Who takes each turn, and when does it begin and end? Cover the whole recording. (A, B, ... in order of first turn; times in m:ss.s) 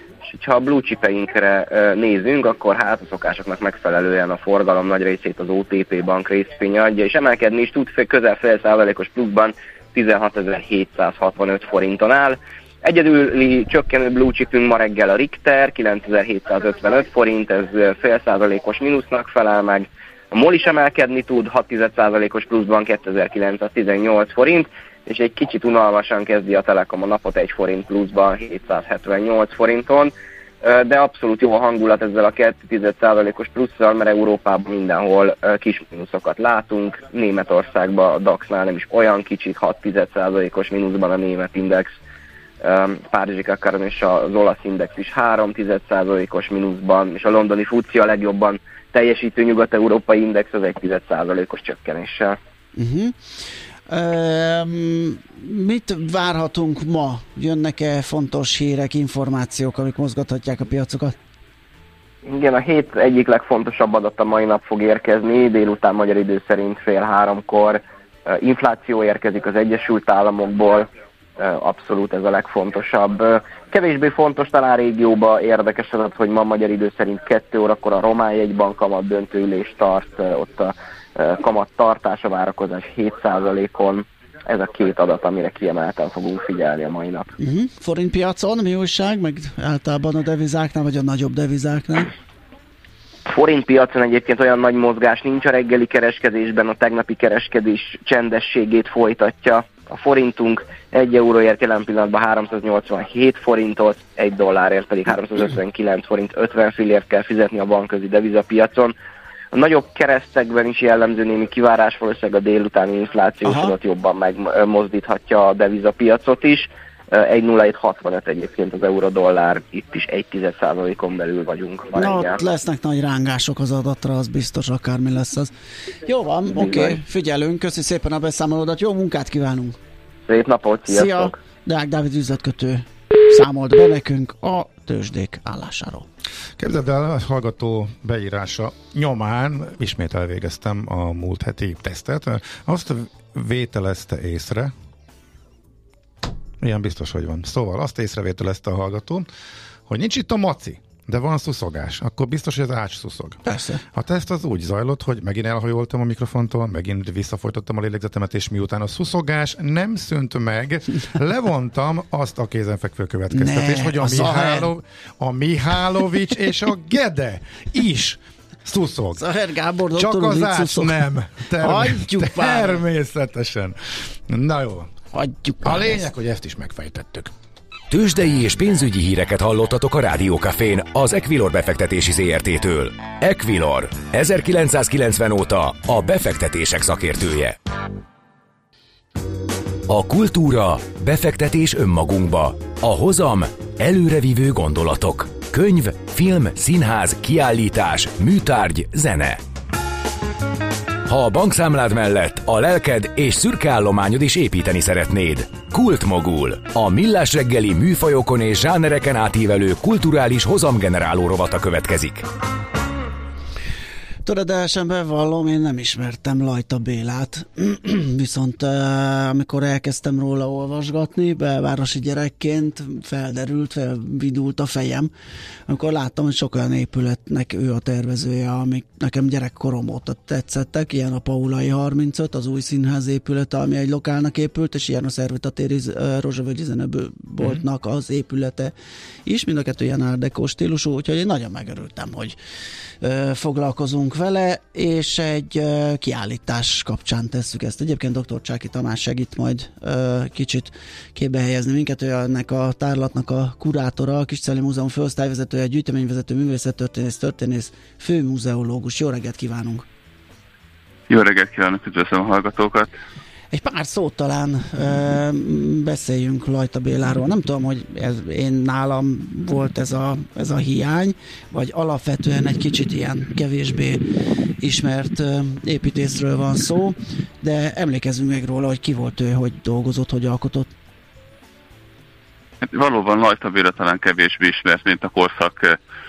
0:00.3-0:42.0 A
0:42.6-0:52.4 A
0:52.8-0:53.2 B
0:53.9-1:01.2 B
1:02.2-1:27.3 A
1:27.4-1:32.1 B
1:33.2-1:48.9 A
1:49.5-2:02.4 A
1:53.4-1:53.7 B
2:01.9-2:05.5 B
2:06.0-2:09.8 B
2:06.6-2:06.9 A
2:10.3-2:11.4 A
2:10.9-2:16.1 B
2:16.6-2:24.7 C
2:26.6-2:29.2 C
2:29.9-2:33.4 C
2:33.4-2:33.8 B
2:33.9-2:49.3 C
2:43.3-2:44.7 B
2:49.2-2:51.0 B
2:49.9-2:54.9 C
2:51.6-2:52.8 B
2:55.1-2:56.0 B
2:55.6-2:57.3 C
2:57.9-3:07.6 D
3:09.9-3:19.4 D
3:21.1-3:32.2 D
3:34.2-3:45.1 B
3:45.7-3:58.7 B
3:59.2-4:02.3 B
4:03.0-4:19.8 B
4:21.1-4:22.9 E
4:23.5-4:34.0 B
4:34.6-4:40.7 B
4:42.6-4:45.8 E